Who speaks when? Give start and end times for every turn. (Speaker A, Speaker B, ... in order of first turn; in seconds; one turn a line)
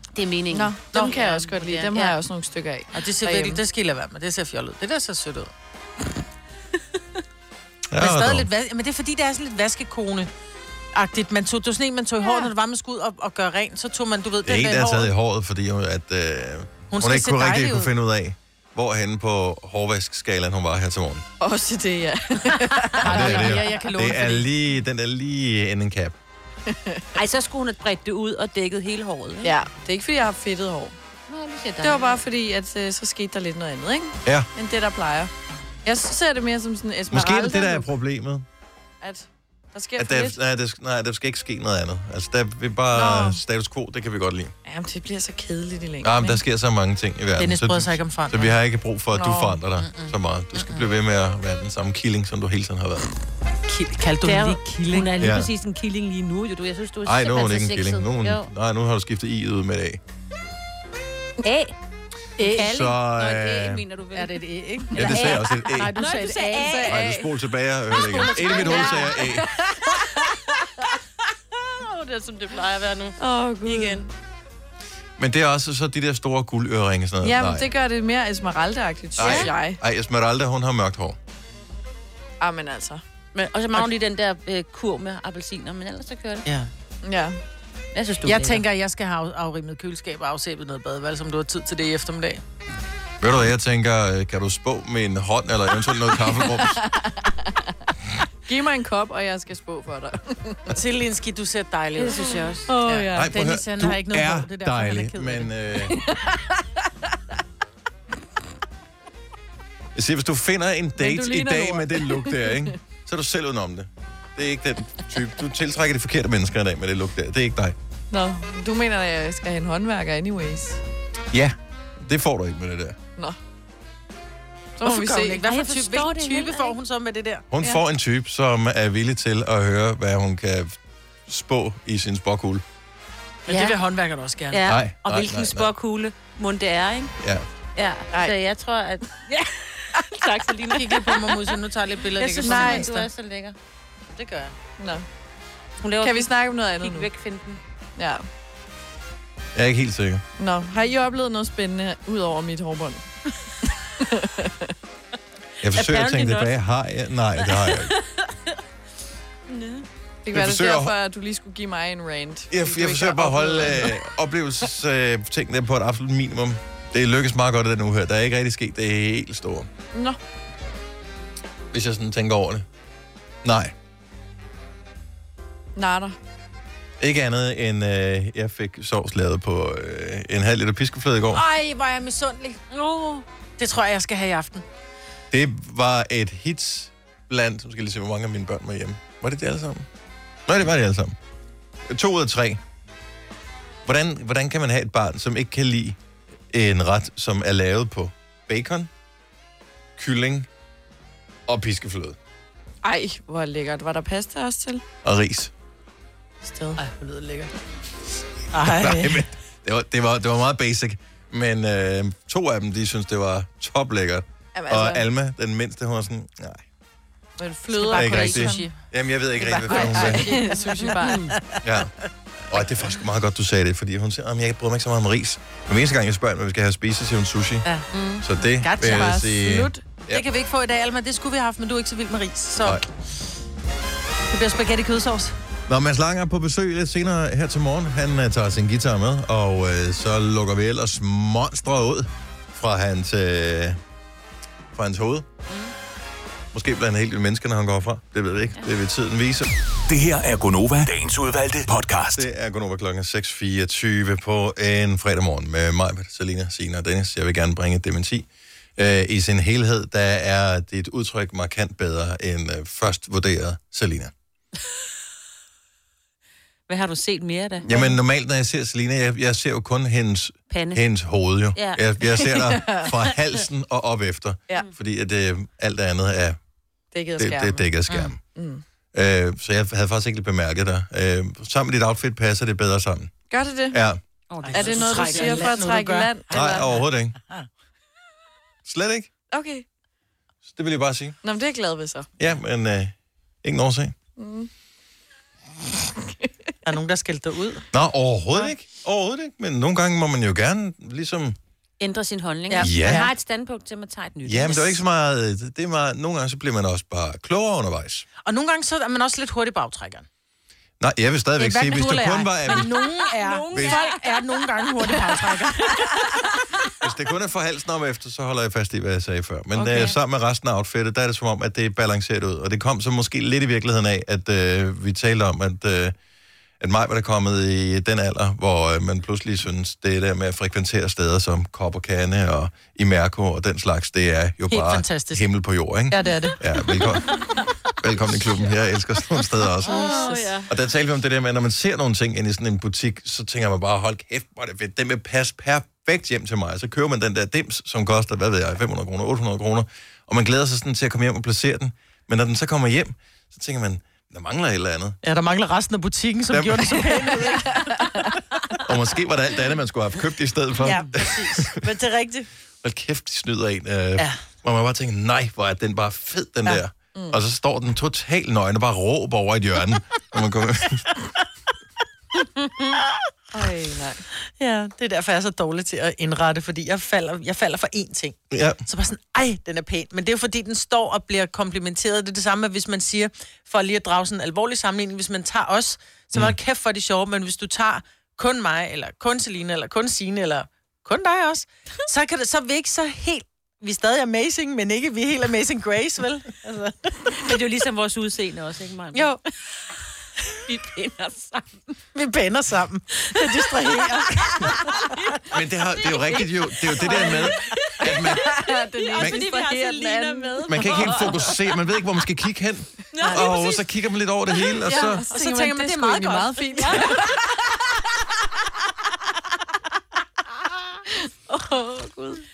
Speaker A: 0.1-2.2
Speaker B: 0.5-3.6
Speaker C: 0.9-1.3
Speaker C: 2.9-5.5
Speaker D: 7.9-8.5
Speaker C: 8.0-10.3
Speaker C: 10.9-15.1
Speaker D: 14.4-21.2
Speaker C: 16.9-17.9
Speaker B: 21.4-23.6
Speaker C: 22.9-24.5
Speaker D: 23.0-26.2
Speaker B: 26.7-27.0
Speaker A: 27.1-29.5
Speaker B: 29.4-30.9
Speaker A: 31.3-32.2
Speaker B: 31.8-35.3
Speaker B: 35.9-37.9
Speaker D: 37.1-38.5
Speaker B: 39.0-40.4
Speaker D: 40.0-44.5
Speaker B: 42.9-43.4
Speaker B: 44.7-46.4
Speaker D: 46.0-53.1
Speaker C: 47.4-48.5
Speaker B: 49.1-49.6
Speaker C: 49.8-50.8
Speaker C: 53.7-55.1
Speaker A: 54.2-58.5
Speaker D: 55.2-55.5
Speaker D: 57.0-60.0
Speaker A: 61.4-61.7
Speaker C: 62.4-62.7
Speaker A: 62.4-64.4
Speaker D: 62.6-63.8
Speaker C: 64.2-67.0
Speaker D: 65.0-65.9
Speaker A: 65.0-67.3
Speaker D: 66.8-69.5
Speaker A: 68.0-69.3
Speaker C: 68.1-69.1
Speaker A: 71.6-74.1
Speaker B: 73.2-74.0
Speaker D: 75.2-77.7
Speaker B: 77.2-79.8
Speaker D: 79.2-81.2
Speaker A: 79.2-79.5
Speaker B: 82.4-83.0
Speaker A: 83.3-86.5
Speaker B: 87.0-87.4
Speaker A: 87.9-88.7
Speaker C: 88.2-92.4
Speaker D: 93.2-96.8
Speaker B: 96.2-97.5
Speaker B: 98.5-100.7
Speaker C: 100.7-105.5
Speaker A: 102.0-102.7
Speaker B: 102.7-103.3
Speaker D: 103.1-106.0
Speaker B: 106.0-106.6
Speaker D: 110.0-117.8
Speaker B: 111.0-112.7
Speaker B: 118.1-120.8
Speaker D: 121.3-123.0
Speaker B: 124.8-125.4
Speaker C: 124.8-127.5
Speaker A: 125.4-126.8
Speaker D: 127.5-132.6
Speaker C: 133.5-134.6
Speaker A: 133.5-133.8
Speaker A: 134.5-137.1
Speaker D: 134.7-135.7
Speaker D: 137.2-137.5
Speaker A: 137.8-143.6
Speaker C: 140.8-143.1
Speaker B: 142.4-142.9
Speaker C: 144.1-144.5
Speaker B: 144.8-145.1
Speaker A: 145.8-147.6
Speaker B: 146.0-147.1
Speaker B: 148.0-148.2
Speaker D: 149.6-150.2
Speaker B: 150.4-153.0
Speaker B: 154.0-154.7
Speaker D: 155.6-157.9
Speaker A: 155.7-156.6
Speaker A: 157.4-158.3
Speaker A: 159.5-159.8
Speaker B: 160.2-164.0
Speaker D: 160.3-160.9
Speaker D: 162.5-169.7
Speaker D: 171.7-172.7
Speaker D: 173.4-173.7
Speaker B: 175.8-176.2
Speaker D: 177.0-181.4
Speaker C: 181.3-182.6
Speaker A: 182.7-183.2
Speaker C: 183.6-184.6
Speaker D: 185.3-189.9
Speaker D: 190.5-191.2
Speaker D: 191.9-192.6
Speaker D: 193.8-196.0
Speaker D: 196.5-198.9
Speaker D: 200.0-200.5
Speaker D: 201.5-202.2
Speaker B: 202.8-204.8
Speaker D: 205.0-205.5
Speaker B: 206.4-206.8
Speaker C: 206.8-207.5
Speaker C: 208.5-209.3
Speaker D: 208.6-216.7
Speaker B: 214.6-215.1
Speaker B: 217.4-218.7
Speaker C: 217.7-218.8
Speaker D: 217.9-220.6
Speaker C: 219.4-221.6
Speaker B: 219.6-221.3
Speaker A: 220.8-221.3
Speaker D: 221.6-221.9
Speaker D: 222.5-227.7
Speaker A: 227.9-228.3
Speaker D: 228.2-230.3
Speaker C: 228.6-229.5
Speaker B: 228.8-229.8
Speaker C: 230.1-232.9
Speaker C: 234.3-235.4
Speaker D: 235.7-243.8
Speaker D: 244.7-245.3
Speaker A: 245.5-245.7
Speaker D: 246.5-249.5
Speaker E: 249.9-252.3
Speaker D: 252.1-264.1
Speaker A: 266.7-267.7
Speaker D: 267.6-276.4
Speaker B: 267.7-268.0
Speaker A: 270.5-270.8
Speaker A: 271.6-272.4
Speaker B: 272.4-272.8
Speaker B: 276.9-277.6
Speaker D: 277.2-278.2
Speaker B: 278.3-278.6
Speaker D: 278.9-283.1
Speaker B: 283.3-283.8
Speaker D: 283.7-284.0
Speaker A: 284.3-285.6
Speaker C: 284.4-287.5
Speaker B: 284.5-286.7
Speaker D: 286.3-287.2
Speaker D: 288.6-289.1
Speaker B: 289.3-289.6
Speaker D: 290.5-291.2
Speaker B: 291.2-292.1
Speaker D: 292.2-293.9
Speaker B: 294.2-294.5
Speaker C: 296.6-297.7
Speaker D: 297.7-301.4
Speaker A: 301.8-304.8
Speaker C: 302.5-303.1
Speaker D: 302.6-303.1
Speaker D: 304.2-308.1
Speaker C: 308.2-310.1
Speaker D: 310.8-312.8
Speaker C: 311.4-316.2
Speaker A: 312.5-316.7
Speaker D: 313.5-313.9
Speaker D: 316.8-325.9
Speaker A: 319.6-320.0
Speaker D: 326.6-337.2
Speaker C: 334.5-335.3
Speaker C: 335.9-336.4
Speaker A: 337.2-337.4
Speaker D: 337.8-355.0
Speaker A: 339.6-340.5
Speaker C: 339.6-340.3
Speaker C: 355.0-358.2
Speaker D: 356.3-357.1
Speaker B: 357.6-358.1
Speaker D: 358.6-361.6
Speaker C: 360.6-362.3
Speaker D: 362.6-370.9
Speaker B: 373.3-374.1
Speaker C: 374.4-397.2
Speaker D: 378.3-378.6
Speaker A: 397.2-399.1
Speaker C: 398.9-399.2
Speaker A: 400.5-401.6
Speaker C: 401.9-404.9
Speaker A: 404.5-405.1
Speaker D: 405.3-408.4
Speaker A: 405.7-411.5
Speaker B: 408.2-411.1
Speaker D: 409.0-409.2
Speaker D: 410.5-415.1
Speaker A: 412.9-413.6
Speaker C: 413.0-413.3
Speaker A: 414.5-415.0
Speaker B: 414.7-417.2
Speaker C: 415.1-416.9
Speaker A: 416.6-417.0
Speaker A: 421.3-422.2